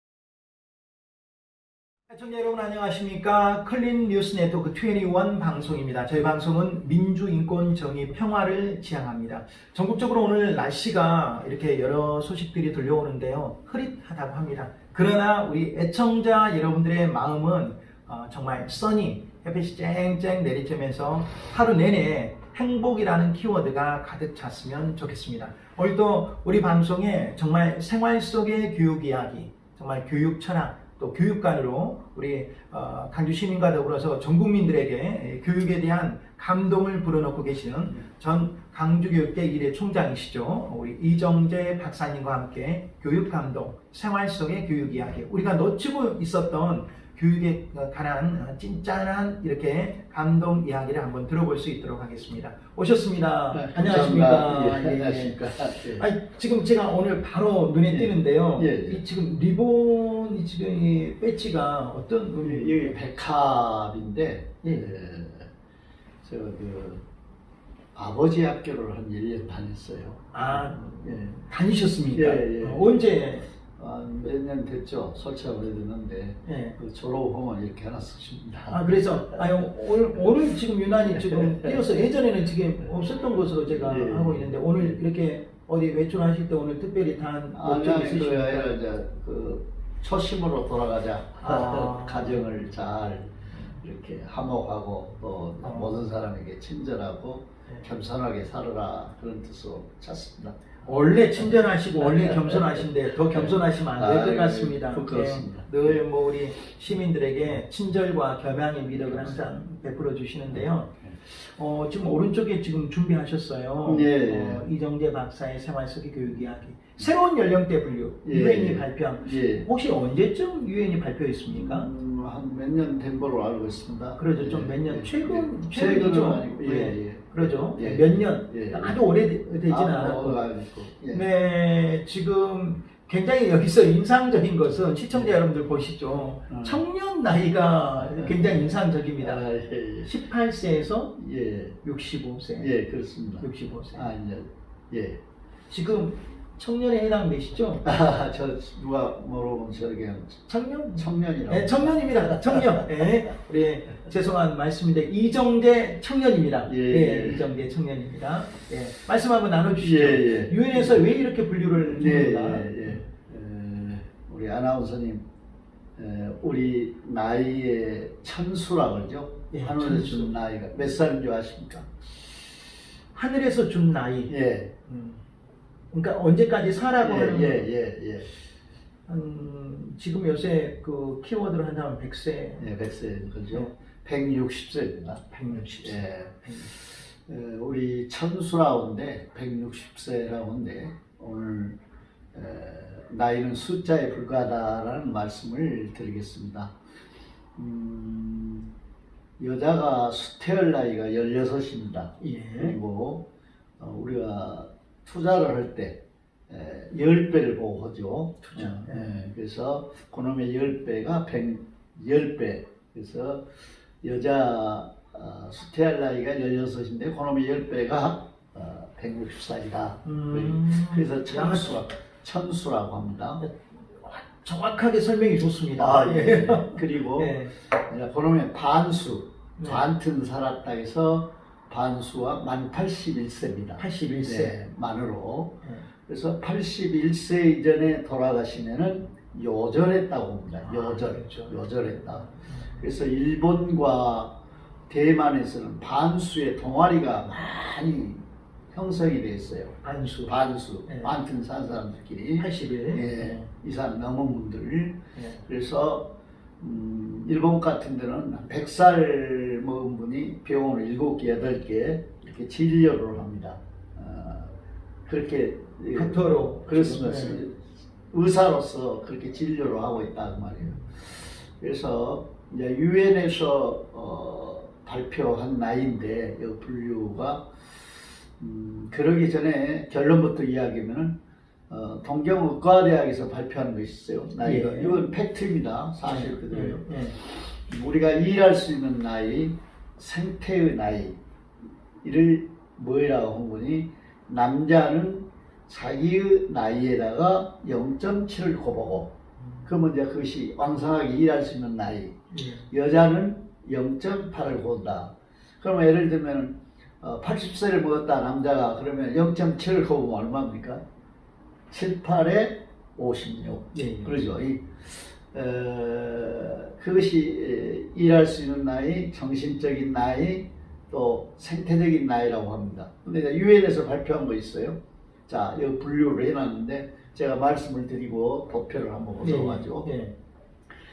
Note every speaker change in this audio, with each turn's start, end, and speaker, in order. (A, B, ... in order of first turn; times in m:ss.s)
0:02.1-1:02.9 A
0:53.5-0:56.1 B
0:57.9-0:59.0 B
1:02.4-1:05.5 B
1:06.2-1:07.0 B
1:08.0-1:11.4 B
1:10.3-1:13.5 A
1:12.1-1:13.2 B
1:13.8-1:19.4 B
1:16.5-1:16.8 A
1:18.7-1:28.8 A
1:21.1-1:21.8 B
1:23.7-1:25.0 B
1:27.5-1:46.0 B
1:31.4-1:32.7 A
1:33.5-1:33.8 A
1:35.6-1:36.1 A
1:40.8-2:01.9 A
1:49.0-1:49.6 B
1:50.5-1:51.2 B
1:53.8-1:54.7 B
1:58.2-1:59.7 B
2:01.5-2:09.0 B
2:04.2-2:10.4 A
2:09.7-2:11.3 B
2:11.1-2:19.4 A
2:15.1-2:15.4 B
2:16.5-2:16.8 B
2:18.0-2:20.1 B
2:20.0-2:21.2 A
2:21.2-2:21.8 B
2:21.8-2:22.7 A
2:22.6-2:25.2 B
2:23.4-2:24.1 A
2:25.7-2:27.9 A
2:27.8-2:32.9 B
2:30.5-2:43.0 A
2:36.7-2:37.5 B
2:39.8-2:41.0 B
2:41.7-2:45.2 B
2:46.0-2:51.9 B
2:49.5-2:50.4 A
2:53.1-2:54.3 A
2:54.3-2:54.7 B
2:54.9-2:55.2 A
2:55.9-2:57.6 A
2:57.0-2:58.3 B
2:59.1-3:02.7 A
3:02.6-3:11.8 B
3:05.3-3:06.7 A
3:12.3-3:16.7 B
3:17.6-3:18.7 B
3:19.4-3:23.3 B
3:22.2-3:22.8 A
3:23.8-3:33.5 B
3:28.4-3:29.1 A
3:34.0-3:43.4 B
3:40.0-3:41.9 A
3:43.4-3:47.5 A
3:45.8-4:02.3 B
3:49.6-3:49.8 A
3:53.8-3:54.5 A
4:00.6-4:02.8 A
4:02.8-4:04.4 B
4:04.9-4:24.5 B
4:09.8-4:11.2 A
4:12.4-4:13.5 A
4:15.2-4:15.5 A
4:25.1-4:37.5 B
4:25.9-4:27.4 A
4:38.4-4:41.2 B
4:41.7-4:51.2 B
4:44.4-4:45.0 A
4:46.0-4:47.2 A
4:52.0-4:59.1 B
4:59.4-4:59.7 A
4:59.6-5:02.2 B
5:02.3-5:02.7 A
5:02.7-5:10.8 B
5:11.7-5:29.9 B
5:13.7-5:14.2 A
5:29.2-5:30.1 A